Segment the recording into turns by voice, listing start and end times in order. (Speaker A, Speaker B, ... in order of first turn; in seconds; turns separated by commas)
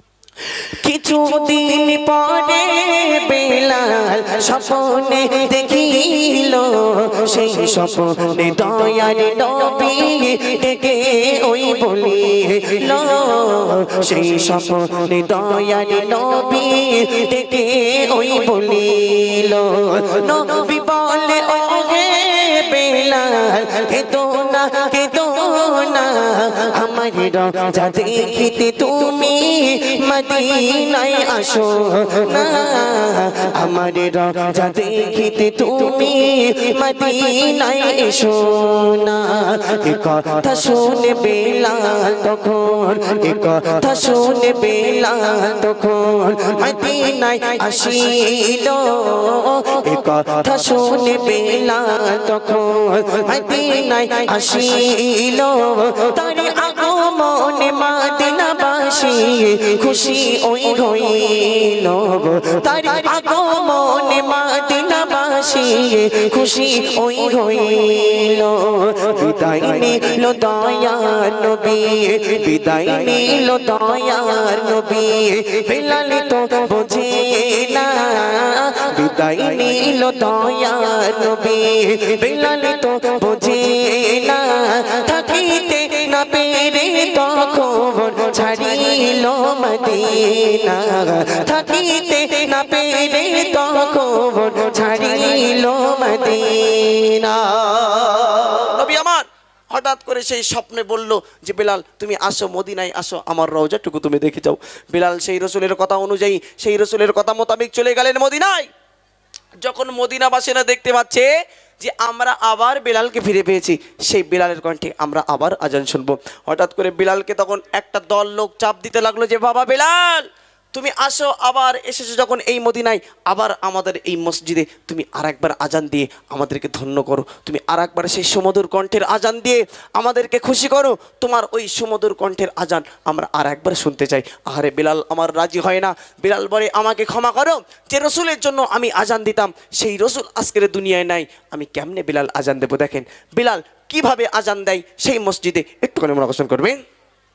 Speaker A: 0.8-7.2, Speaker B: 0.9-2.1, Speaker B: 7.3-8.7, Speaker A: 8.2-39.7, Speaker B: 14.1-14.6, Speaker B: 39.6-40.3, Speaker A: 40.3-49.8, Speaker B: 43.2-43.7, Speaker B: 49.7-50.4, Speaker A: 50.4-69.1, Speaker B: 62.2-63.1, Speaker B: 69.0-70.1, Speaker A: 69.9-96.8, Speaker B: 72.1-73.3, Speaker B: 78.8-79.2, Speaker B: 81.7-82.2, Speaker B: 83.7-87.2, Speaker B: 87.8-90.7, Speaker B: 91.7-92.5, Speaker B: 93.9-108.7, Speaker B: 109.6-146.8